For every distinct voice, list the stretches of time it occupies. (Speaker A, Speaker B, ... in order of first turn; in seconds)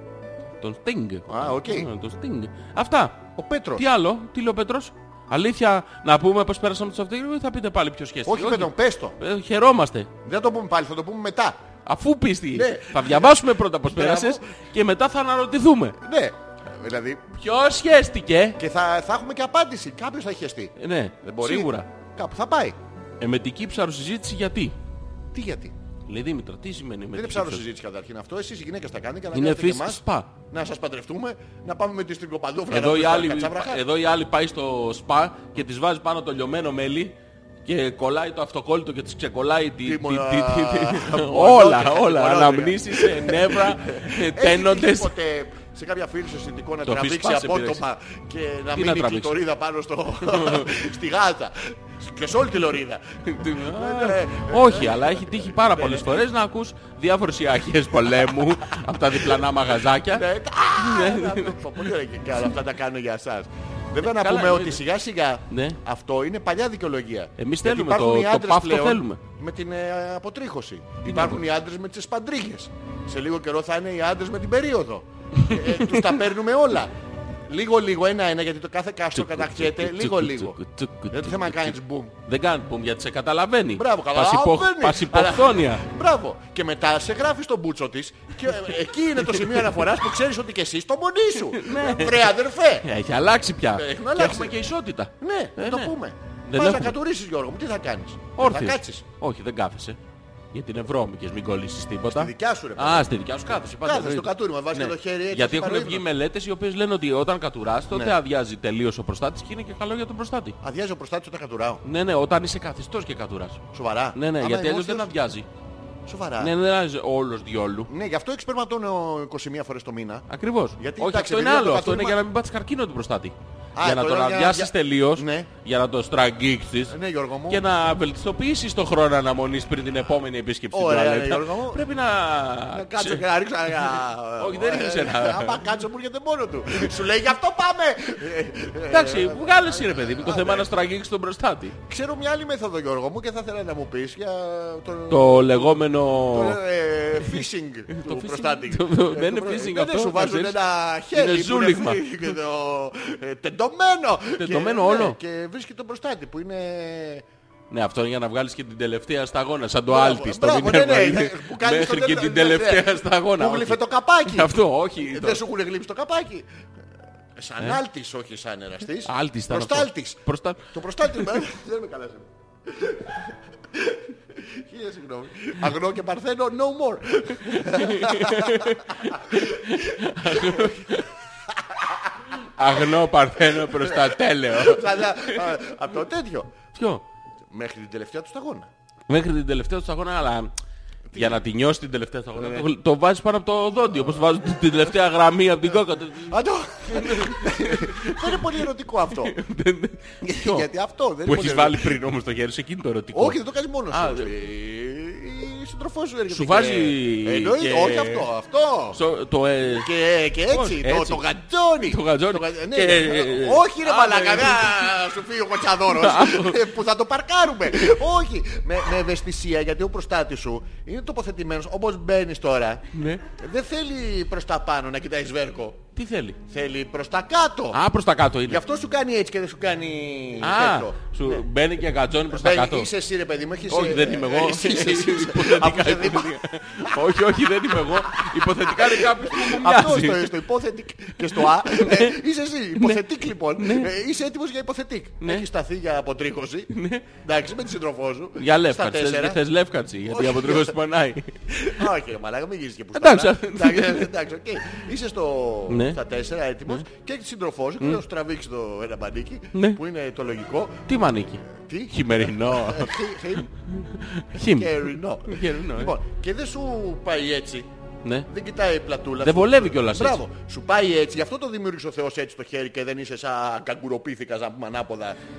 Speaker A: 0.6-3.2, 3.8-10.1, 11.9-16.0, 17.3-18.6, 20.8-21.9, 23.2-24.8, 26.1-27.6, 29.3-30.3, 32.7-45.1, 46.8-47.8, 48.7-49.4, 50.2-50.7, 53.3-60.3, 60.8-61.9, 64.0-64.8, 65.5-65.8, 67.4-69.2, 71.0-71.4, 75.4-76.2, 79.1-85.8, 89.3-89.6, 91.4-95.9, 96.5-97.0, 98.4-100.0, 100.5-110.6, 111.8-113.6, 114.2-115.5, 116.4-117.9, 120.3-127.0, 127.5-133.2, 134.4-135.7, 138.9-141.8, 145.1-146.6, 147.9-150.6, 151.1-152.1, 154.4-155.2, 157.7-165.4, 169.1-171.4, 177.4-181.1, 182.4-185.5, 186.7-187.0, 189.1-190.5, 191.2-198.6, 199.2-200.7, 201.2-203.4, 203.9-204.3, 206.3-208.3, 208.9-209.9, 210.5-211.2, 211.8-214.8, 215.9-216.6, 222.9-223.2, 225.9-226.4, 227.7-228.6, 230.4-232.9, 233.7-240.4, 241.2-242.2, 242.8-243.0, 243.6-243.9, 245.2-245.5, 246.7-247.1, 248.4-251.9, 252.9-254.1, 255.7-256.0, 259.5-259.8, 260.9-262.9, 263.6-265.9, 269.2-270.2
Speaker B: 1.3-1.9, 3.4-3.9, 8.3-9.2, 10.2-11.6, 12.5-14.4, 16.0-17.3, 18.6-22.8, 25.3-25.7, 27.1-33.8, 39.8-56.2, 60.1-76.9, 77.5-80.6, 81.1-82.2, 83.8-92.9, 93.7-94.6, 95.2-99.0, 102.1-103.1, 103.7-106.1, 107.9-108.2, 110.6-111.8, 113.7-115.2, 116.1-116.5, 117.9-122.2, 123.8-125.5, 126.9-127.6, 130.7-131.8, 132.7-140.7, 141.8-157.3, 159.9-166.5, 167.4-182.7, 183.4-186.5, 187.5-188.7, 191.1-191.4, 192.4-192.7, 196.3-199.3, 200.2-202.0, 203.1-209.0, 209.7-225.9, 226.5-227.8, 228.5-231.4, 232.3-249.4, 250.0-250.8, 251.7-263.5, 264.5-267.7, 268.3-275.2